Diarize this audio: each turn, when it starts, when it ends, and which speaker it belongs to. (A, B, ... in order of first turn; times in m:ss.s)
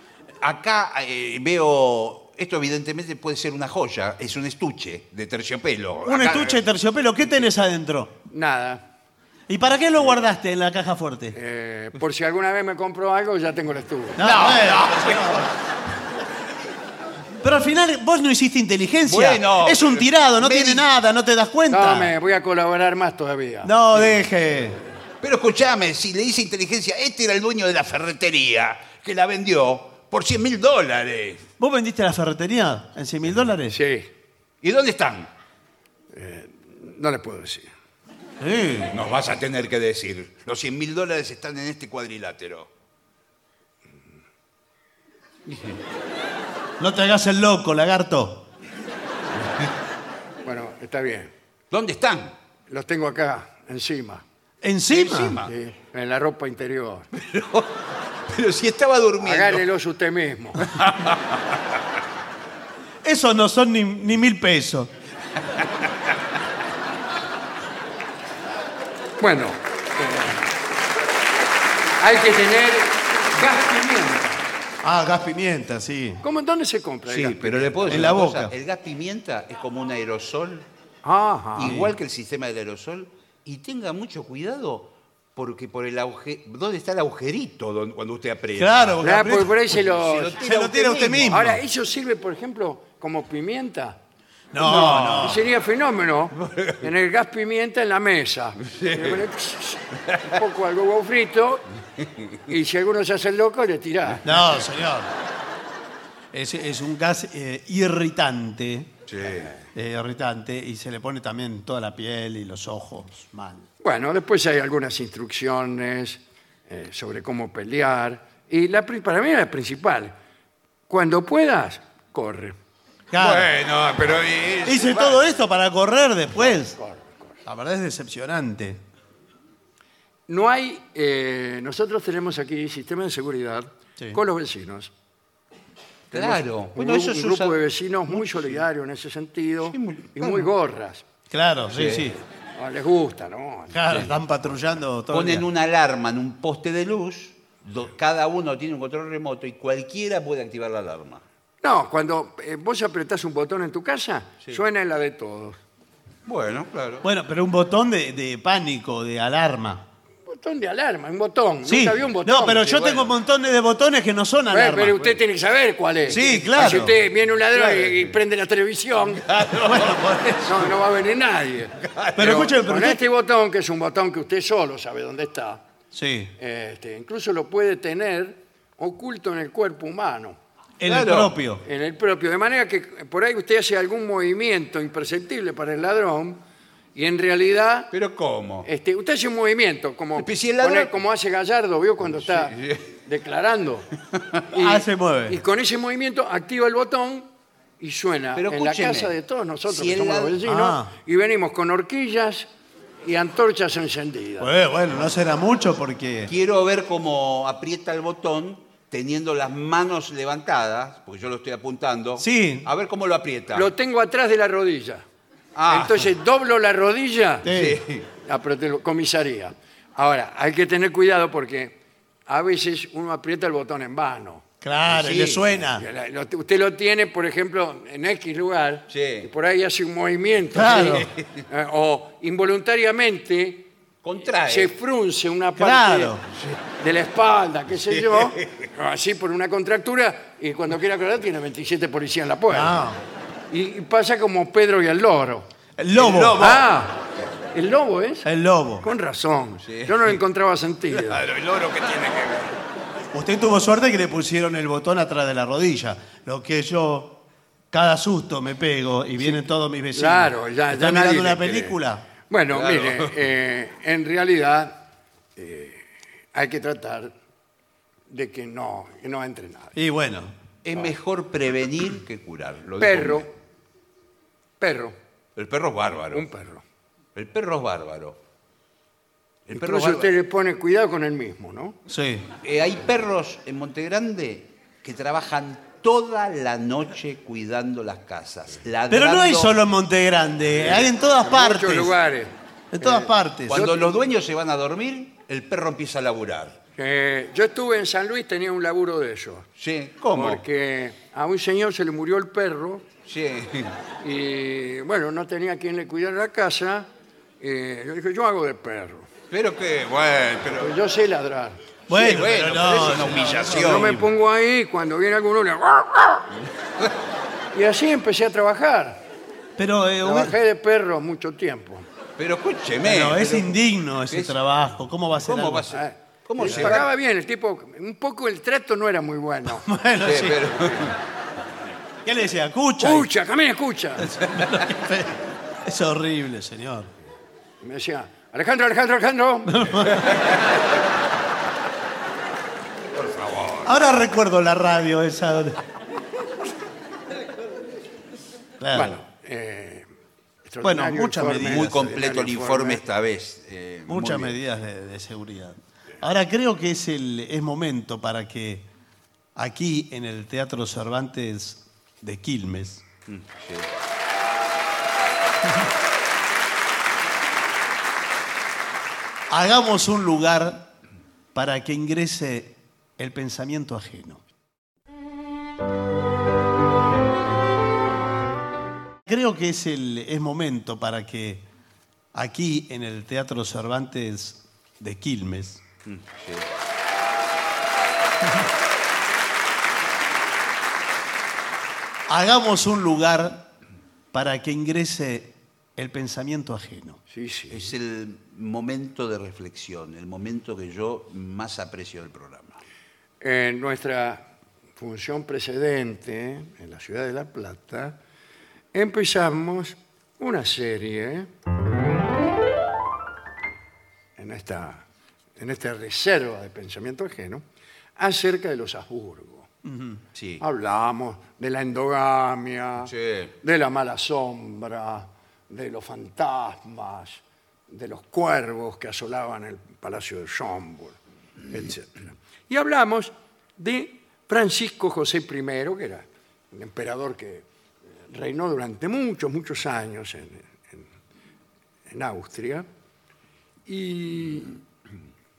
0:00.4-0:06.6 A
0:06.0-0:08.2 B
0:08.3-0:08.8 C
0:09.5-0:11.4 B
0:11.3-0:14.2 C
0:14.2-0:15.5 B
0:14.2-0:15.4 A
0:17.4-0:22.1 B
0:19.0-0:20.9 A
0:21.7-0:23.7 C
0:23.6-0:24.8 B
0:25.2-0:31.4 A
0:31.6-0:33.8 B
0:33.7-0:34.1 C
0:34.6-0:35.3 A
0:36.1-0:37.7 C
0:38.4-0:38.9 B
0:38.9-0:42.7 A
0:45.5-0:45.7 A
0:46.8-0:48.5 B
0:50.4-0:51.3 C
0:51.7-0:52.3 A
0:52.7-0:54.2 C
0:54.6-0:55.4 B
0:54.9-0:55.5 A
0:55.4-0:57.1 C
0:57.1-0:59.6 A
0:59.2-1:00.6 C
1:00.6-1:01.4 A
1:03.0-1:04.9 B
1:09.2-1:10.4 C
1:12.0-1:14.4 C
1:14.8-1:16.2 B
1:16.2-1:18.0 C
1:17.1-1:20.6 A
1:17.9-1:18.5 B
1:21.0-1:21.8 C
1:21.6-1:29.0 A
1:21.6-1:21.9 B
1:28.6-1:29.6 B
1:29.0-1:30.4 C
1:29.7-1:31.5 A
1:30.4-1:31.6 B
1:31.3-1:34.0 C
1:34.5-1:35.4 B
1:34.6-1:35.3 A
1:34.7-1:41.6 C
1:36.4-1:36.8 A
1:38.6-1:39.2 A
1:42.5-1:44.2 C
1:44.2-1:45.1 B
1:46.3-1:48.9 B
1:49.1-1:49.6 A
1:49.7-1:53.6 B
1:53.8-2:00.1 C
2:00.9-2:02.6 C
2:03.1-2:03.5 B
2:03.2-2:05.2 A
2:04.6-2:06.8 B
2:06.5-2:07.3 C
2:07.4-2:08.8 B
2:10.3-2:14.9 C
2:16.1-2:18.6 A
2:16.1-2:21.0 C
2:19.7-2:20.5 A
2:21.3-2:22.2 B
2:21.7-2:22.1 A
2:22.6-2:24.0 C
2:23.7-2:25.4 B
2:25.1-2:31.2 A
2:31.6-2:35.6 C
2:36.2-2:37.0 A
2:37.0-2:39.8 B
2:40.2-2:42.8 C
2:41.6-2:45.0 B
2:42.6-2:43.1 A
2:44.5-2:49.2 C
2:46.1-2:46.9 B
2:47.5-2:48.1 A
2:49.1-2:50.1 A
2:49.6-2:50.7 B
2:50.4-2:55.6 C
2:51.8-2:52.4 A
2:52.2-2:53.0 B
2:55.9-2:56.3 B
2:56.4-3:00.4 C
3:00.8-3:01.6 B
3:00.8-3:01.4 A
3:01.6-3:06.4 C
3:06.9-3:07.9 C
3:07.9-3:08.7 A
3:08.6-3:13.9 C
3:10.2-3:10.9 A
3:12.0-3:12.9 A
3:14.5-3:17.3 C
3:14.5-3:15.4 B
3:17.8-3:22.5 C
3:18.4-3:19.1 A
3:19.7-3:20.4 A
3:20.4-3:20.9 B
3:23.0-3:24.5 C
3:24.4-3:26.3 B
3:26.3-3:33.7 A
3:32.2-3:32.6 B
3:33.5-3:35.0 C
3:35.5-3:36.1 A
3:35.7-3:37.5 C
3:37.4-3:37.8 B
3:37.4-3:38.1 A
3:38.2-3:41.8 C
3:42.3-3:44.4 C
3:44.6-3:45.8 B
3:44.9-3:45.6 A
3:45.7-3:53.7 C
3:48.9-3:49.3 A
3:50.5-3:51.1 B
3:54.0-3:54.7 A
3:54.4-3:56.1 C
3:55.6-3:56.2 B
3:56.3-3:56.6 A
3:56.8-4:02.9 C
3:57.8-3:58.7 A
4:02.5-4:03.0 B
4:03.5-4:05.5 C
4:05.8-4:06.6 B
4:05.9-4:06.6 A
4:06.4-4:07.0 C
4:07.5-4:08.3 C
4:08.2-4:08.8 B
4:08.8-4:11.2 C
4:09.6-4:10.2 A
4:10.9-4:12.5 A
4:13.1-4:22.1 B
4:19.9-4:21.8 C
4:22.3-4:24.8 C
4:22.5-4:23.1 A
4:25.4-4:27.1 C
4:28.1-4:29.8 C
4:29.7-4:30.3 B
4:30.6-4:33.3 A
4:32.8-4:33.3 C
4:34.6-4:35.0 C
4:35.4-4:36.3 A
4:36.1-4:36.6 C
4:37.1-4:38.2 A
4:39.5-4:40.1 A
4:39.5-4:41.8 C
4:41.9-4:42.3 B
4:42.4-4:49.6 A
4:48.9-4:52.0 B
4:50.6-4:50.9 A
4:51.2-4:54.0 C
4:52.7-4:53.6 B
4:53.5-4:56.6 A
4:56.8-4:59.5 C
4:59.6-5:00.4 A
5:00.1-5:02.8 C
5:03.0-5:03.8 A
5:04.0-5:06.9 C
5:07.4-5:09.1 C
5:09.3-5:10.8 A
5:10.6-5:11.6 C
5:11.9-5:14.0 A
5:11.9-5:14.1 B
5:13.5-5:16.3 C
5:17.5-5:19.0 C
5:19.6-5:20.3 B
5:20.0-5:21.8 C
5:22.2-5:26.9 A
5:22.8-5:25.7 B
5:25.7-5:29.6 C
5:26.4-5:26.8 B
5:29.5-5:30.5 B
5:30.0-5:31.0 A
5:32.0-5:33.1 B
5:32.8-5:34.1 C
5:34.0-5:36.9 B
5:37.6-5:39.7 C
5:39.5-5:40.1 B
5:42.9-5:43.7 A
5:43.6-5:45.6 B
5:48.6-5:49.0 B
5:48.7-5:49.9 C
5:50.4-5:52.8 C
5:50.6-5:51.9 B
5:51.5-5:54.3 A
5:53.9-5:58.7 B
5:59.4-6:02.8 B
6:03.1-6:03.7 A
6:09.3-6:10.7 B
6:11.3-6:14.2 B
6:19.0-6:21.4 B
6:22.1-6:25.6 B
6:25.8-6:26.5 A
6:32.1-6:33.5 B
6:34.1-6:37.0 B
6:37.1-6:37.7 C
6:37.5-6:42.6 A
6:43.2-6:44.2 C
6:44.8-6:48.0 C
6:48.7-6:51.3 C
6:54.2-6:54.8 C
6:55.4-6:57.4 C
6:58.0-6:59.5 C
6:59.6-7:00.0 B
7:00.1-7:00.4 A
7:00.4-7:02.9 C
7:02.8-7:03.3 A
7:03.4-7:11.0 C
7:11.5-7:17.4 C
7:18.1-7:20.9 C
7:21.9-7:22.6 C
7:23.7-7:24.6 C